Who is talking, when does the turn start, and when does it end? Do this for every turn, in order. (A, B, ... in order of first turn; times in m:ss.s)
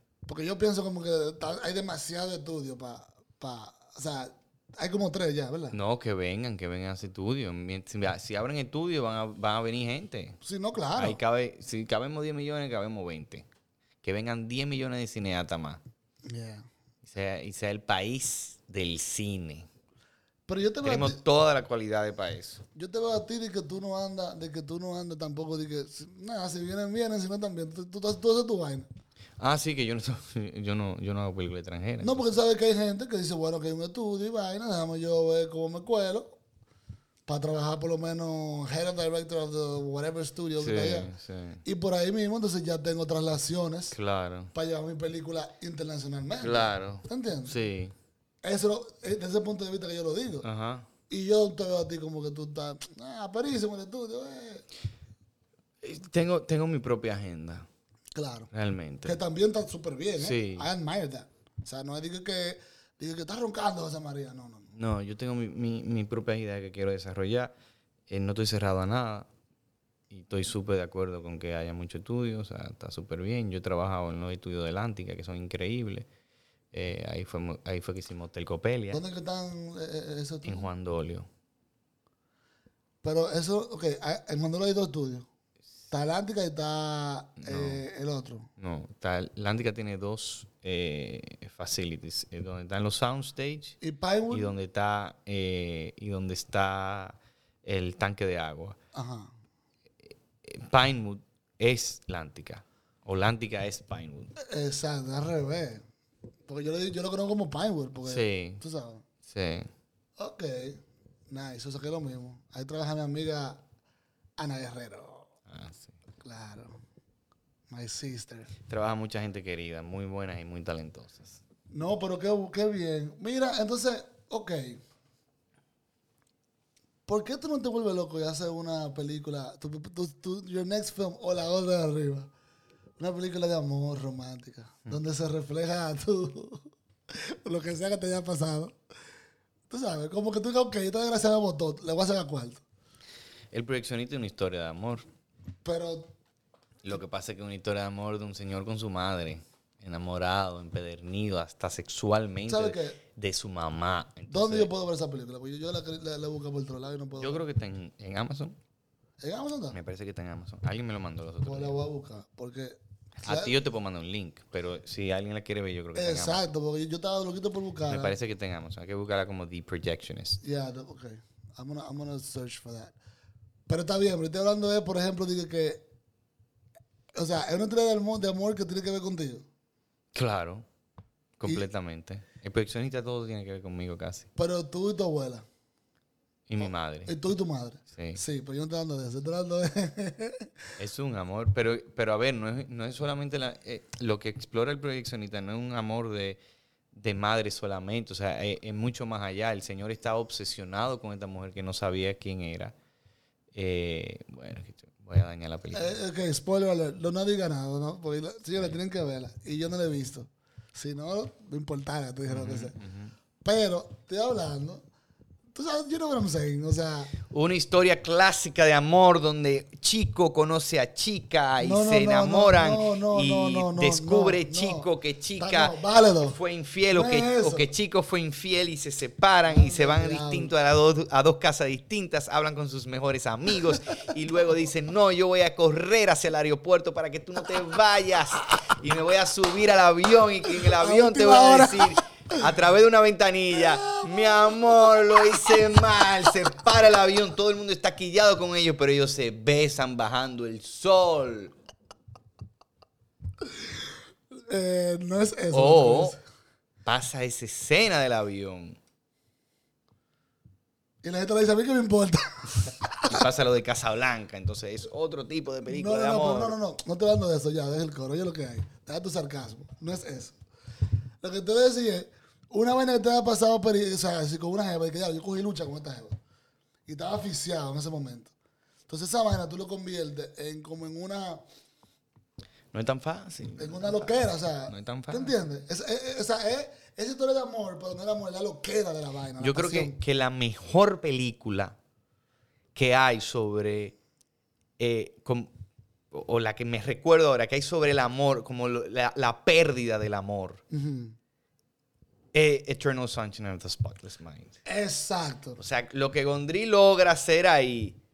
0:00.3-0:05.8 A
0:05.7-0:10.4 B
0:10.4-0:11.2 A
0:11.0-0:13.5 B
0:14.0-0:15.8 B
0:16.3-0:16.6 A
0:17.0-0:19.7 B
0:20.5-0:21.2 A
0:20.8-0:22.6 B
0:22.7-0:28.9 A
0:29.4-0:32.4 B
0:32.0-0:36.4 A
0:37.3-0:41.1 A
0:40.6-0:41.6 B
0:41.6-0:44.0 A
0:43.9-0:44.5 B
0:44.5-0:47.6 A
0:46.4-0:47.9 B
0:48.4-0:50.4 A
0:50.4-0:50.9 B
0:51.1-0:54.6 A
0:55.8-0:57.7 B
0:58.1-0:58.5 A
0:58.5-0:59.2 B
0:59.0-1:04.7 A
1:00.2-1:00.7 B
1:04.7-1:07.5 B
1:08.1-1:09.3 B
1:10.1-1:16.1 B
1:16.7-1:19.0 B
1:18.9-1:20.7 A
1:20.4-1:21.3 B
1:23.0-1:25.3 A
1:25.9-1:28.5 A
1:27.4-1:27.8 B
1:28.6-1:33.8 B
1:33.8-1:34.5 A
1:34.3-1:38.8 B
1:38.9-1:39.3 A
1:40.0-1:44.3 B
1:44.4-1:45.8 A
1:46.5-1:49.0 A
1:48.0-1:48.6 B
1:49.2-1:49.7 B
1:50.2-1:53.6 A
1:54.4-1:55.3 A
1:55.5-1:56.0 B
1:56.2-1:56.8 A
1:57.7-1:58.5 A
1:58.7-2:01.4 B
2:01.7-2:04.8 A
2:07.1-2:12.3 A
2:13.0-2:18.7 A
2:19.7-2:22.6 A
2:23.5-2:25.0 B
2:25.6-2:26.1 A
2:26.8-2:34.7 B
2:32.5-2:33.0 A
2:34.3-2:37.4 A
2:37.2-2:38.6 B
2:39.2-2:39.8 A
2:39.7-2:41.8 B
2:41.4-2:43.6 A
2:43.2-2:46.4 B
2:45.9-2:48.2 A
2:47.8-2:50.4 B
2:50.4-2:52.9 A
2:53.7-2:55.8 A
2:57.1-2:59.4 A
3:00.1-3:00.6 B
3:01.4-3:04.3 B
3:04.4-3:05.4 A
3:06.5-3:07.1 B
3:07.1-3:10.5 A
3:07.9-3:08.2 B
3:10.8-3:16.4 B
3:16.9-3:22.8 B
3:23.5-3:26.0 B
3:25.7-3:32.8 A
3:32.2-3:33.1 B
3:33.4-3:34.8 A
3:35.5-3:37.1 A
3:37.2-4:11.5 B
3:41.6-3:46.4 A
3:46.9-3:47.7 A
3:49.5-3:50.5 A
4:00.5-4:02.4 A
4:03.5-4:06.3 A
4:14.4-4:16.2 A
4:15.5-4:16.2 B
4:16.8-4:18.8 B
4:21.0-4:23.2 A
4:23.0-4:26.6 B
4:25.7-4:30.3 A
4:31.2-4:36.2 A
4:36.9-4:38.3 A
4:38.9-4:41.4 A
4:42.7-4:45.3 B
4:43.6-4:50.0 A
4:49.4-4:51.8 B
4:52.7-4:54.0 B
4:54.8-4:55.5 B
4:56.1-5:00.6 B
5:00.7-5:01.2 A
5:02.3-5:04.6 B
5:04.6-5:05.6 A
5:05.6-5:08.0 B